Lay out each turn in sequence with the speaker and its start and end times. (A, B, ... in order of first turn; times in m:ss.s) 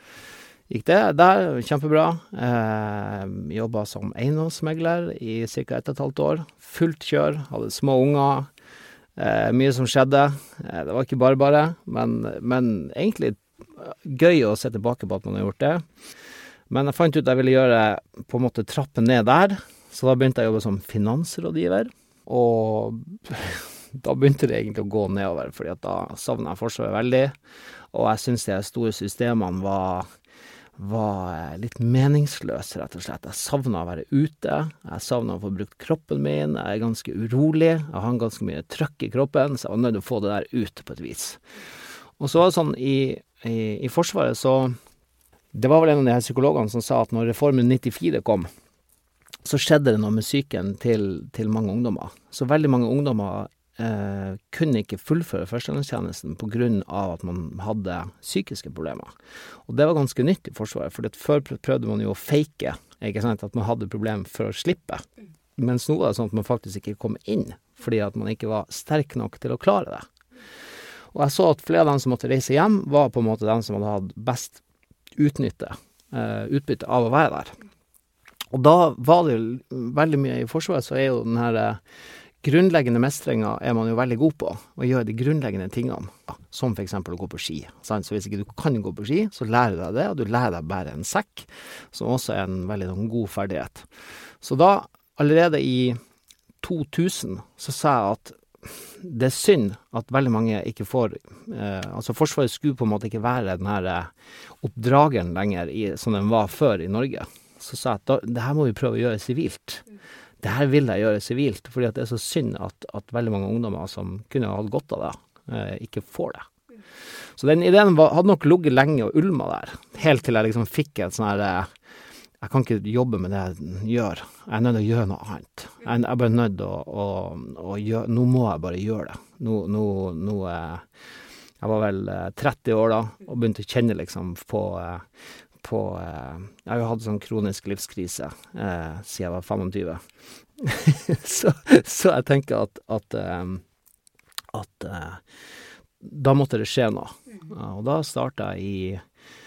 0:00.7-0:08.5 A
0:09.2-0:15.8 A
0:16.7-0:27.3 A
0:27.9-0:30.1 A
0:30.8-0:41.4 A
0:42.2-0:44.8 A
0:45.5-0:48.5 A
0:49.4-0:59.1 A
0:59.7-1:05.0 A
1:05.6-1:10.1 A
1:11.1-1:14.6 A
1:15.2-1:17.6 A
1:18.5-1:21.8 A
1:22.4-1:33.9 A
1:34.4-1:36.0 A
1:36.6-1:49.8 A
1:50.4-1:56.5 A
1:57.4-2:01.7 A
2:02.4-2:10.9 A
2:11.6-2:15.1 A
2:15.6-2:20.0 A
2:20.6-2:23.6 A
2:24.5-2:25.2 A
2:26.0-2:29.0 A